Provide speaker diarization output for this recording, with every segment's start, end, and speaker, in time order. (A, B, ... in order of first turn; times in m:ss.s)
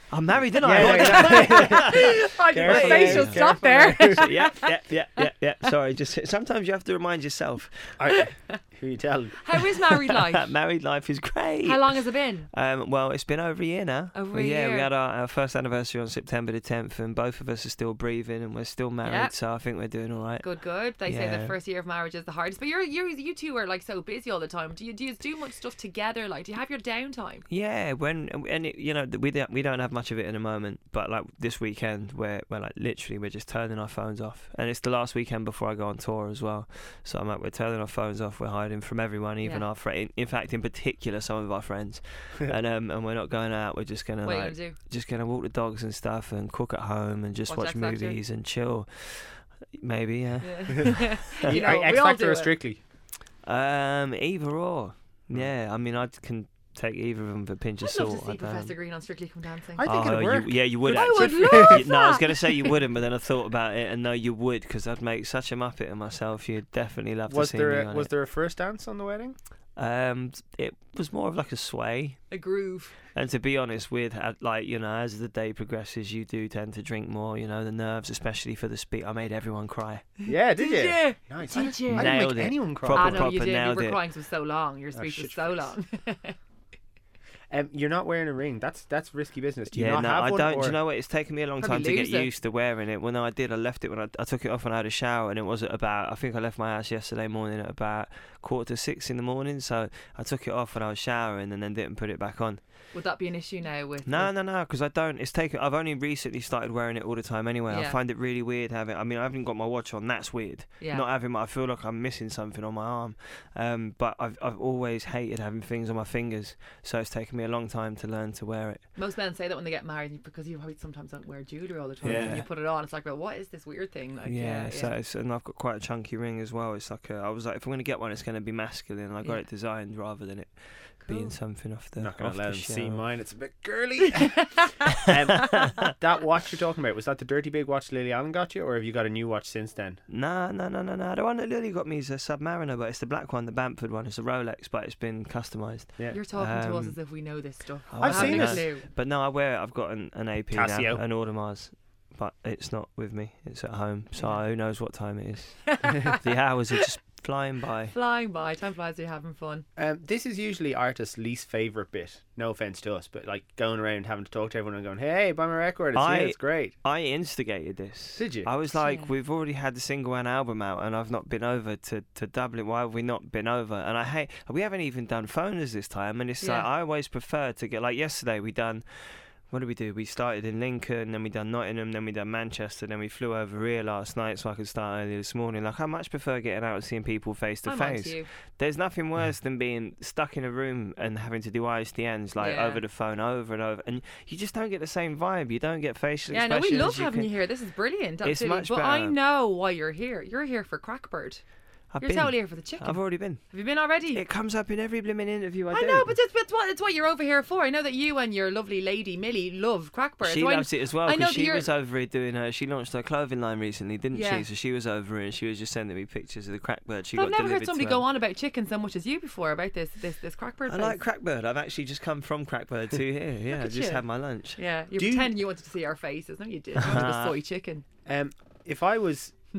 0:00.1-0:03.5 A
0:00.6-0:04.3 B
0:00.7-0:05.3 C
0:04.0-0:08.2 A
0:08.0-0:09.4 B
0:09.4-0:10.5 C
0:10.1-0:12.0 A
0:11.6-0:12.5 C
0:12.5-0:20.5 A
0:14.1-0:14.9 C
0:19.0-0:19.3 C
0:20.4-0:27.4 C
0:21.1-0:21.5 A
0:27.5-0:51.8 A
0:44.2-0:44.8 C
0:47.5-0:48.2 C
0:50.4-0:52.6 C
0:51.4-0:52.8 B
0:53.4-0:58.7 A
0:57.8-0:59.9 C
0:59.8-1:01.9 B
0:59.8-1:08.1 A
1:00.8-1:02.8 C
1:07.3-1:09.4 B
1:09.8-1:12.2 A
1:12.3-1:13.0 C
1:13.2-1:20.0 A
1:20.3-1:23.3 B
1:20.6-1:22.2 C
1:21.9-1:24.0 A
1:22.9-1:26.4 C
1:25.0-1:25.7 B
1:27.5-1:30.8 B
1:29.7-1:42.6 A
1:31.6-1:32.3 C
1:42.9-1:44.3 C
1:44.1-1:58.8 A
1:47.7-1:48.0 C
1:50.8-1:51.1 C
1:59.0-2:04.9 C
2:02.0-2:02.4 B
2:02.0-2:02.5 A
2:04.2-2:13.0 A
2:11.0-2:11.4 C
2:12.0-2:20.0 B
2:14.2-2:14.9 C
2:20.1-2:27.0 A
2:26.1-2:28.9 C
2:27.9-2:37.9 A
2:28.0-2:28.6 B
2:30.5-2:31.0 B
2:35.7-2:36.2 C
2:37.9-2:39.6 C
2:39.8-2:46.8 B
2:46.0-3:17.3 A
2:48.2-2:48.5 B
2:48.7-2:49.1 C
2:56.4-2:56.7 C
3:07.6-3:08.3 C
3:12.4-3:12.8 C
3:16.3-3:21.4 C
3:18.2-3:19.2 A
3:21.9-3:23.4 A
3:22.0-3:24.2 C
3:24.1-3:26.1 A
3:25.7-3:31.7 C
3:30.2-3:38.0 A
3:34.1-3:34.5 C
3:37.1-3:41.0 C
3:40.7-3:44.6 A
3:43.5-3:44.0 C
3:44.6-3:47.8 C
3:45.0-3:45.4 B
3:46.8-3:47.4 A
3:48.1-3:49.3 B